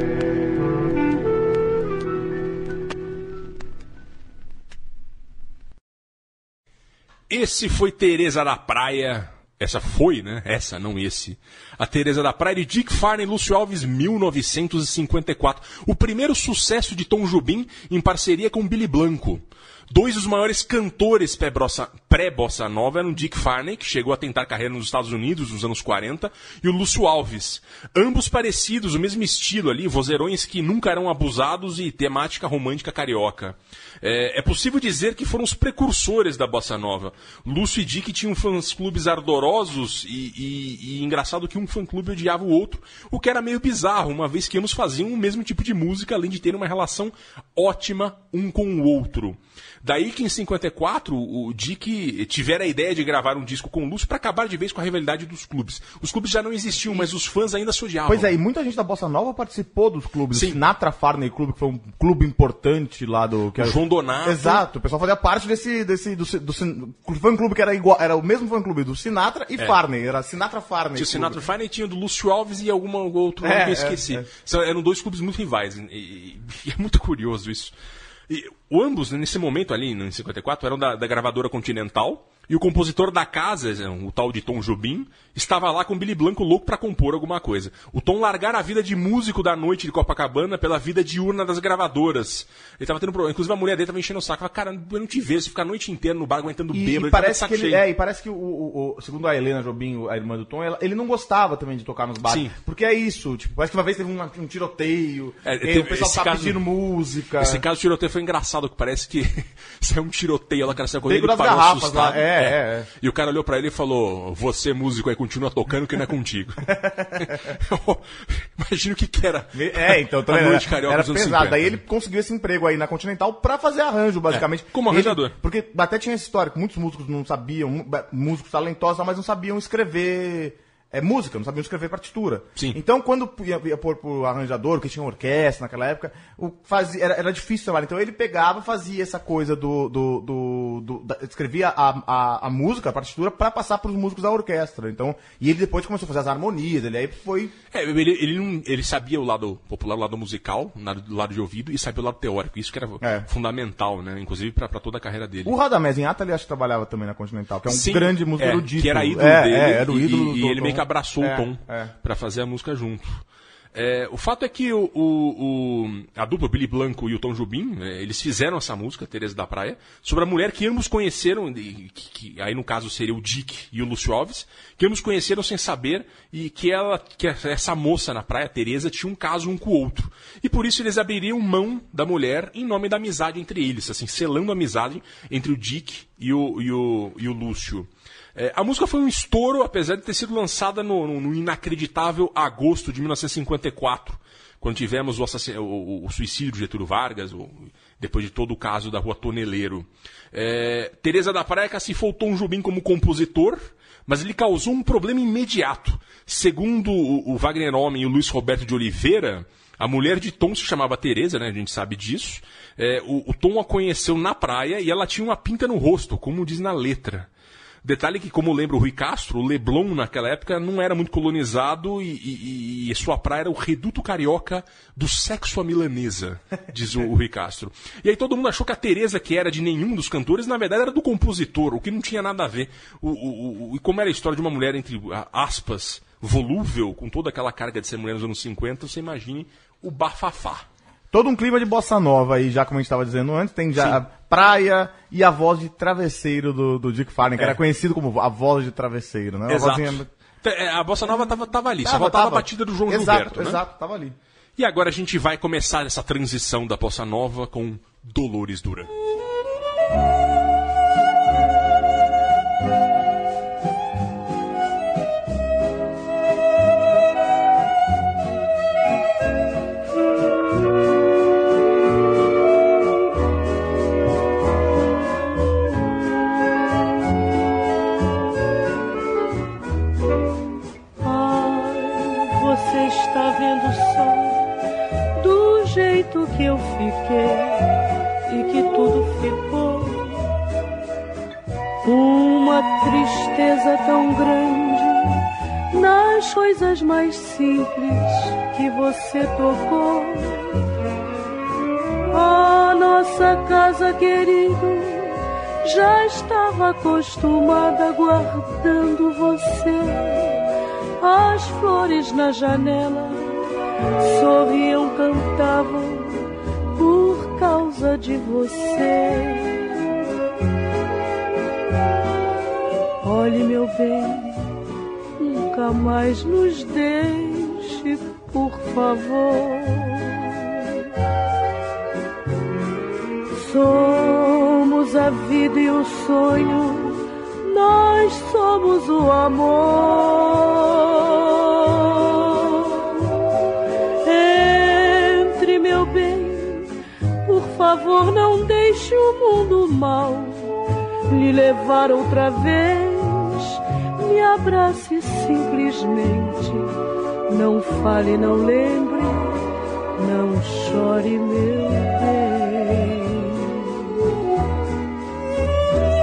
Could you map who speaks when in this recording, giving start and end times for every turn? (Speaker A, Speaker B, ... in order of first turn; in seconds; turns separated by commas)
Speaker A: 7.3-58.3, Speaker B: 58.1-71.4, Speaker A: 60.3-60.6, Speaker A: 63.5-64.7, Speaker A: 71.0-77.7, Speaker B: 73.4-74.3, Speaker A: 78.3-97.8, Speaker B: 96.7-107.6, Speaker A: 102.2-102.5, Speaker A: 105.4-106.6, Speaker A: 107.4-121.8, Speaker B: 111.0-112.9, Speaker B: 116.7-117.4, Speaker B: 119.5-147.5, Speaker A: 124.3-125.3, Speaker A: 147.7-155.5, Speaker B: 153.0-153.3, Speaker B: 155.4-161.9, Speaker A: 157.7-217.3, Speaker A: 217.8-240.7, Speaker B: 241.1-250.1, Speaker A: 249.5-253.6, Speaker B: 251.8-254.2, Speaker A: 254.6-258.9, Speaker C: 281.0-284.4, Speaker C: 285.2-287.6, Speaker C: 288.3-290.3, Speaker C: 291.8-295.2, Speaker C: 295.7-300.6, Speaker C: 302.1-310.4, Speaker C: 311.0-313.4, Speaker C: 314.0-319.7, Speaker C: 323.0-324.4, Speaker C: 325.2-330.7, Speaker C: 333.3-343.0, Speaker C: 344.0-346.7, Speaker C: 347.2-350.5, Speaker C: 351.1-356.7, Speaker C: 357.3-359.4, Speaker C: 359.9-363.9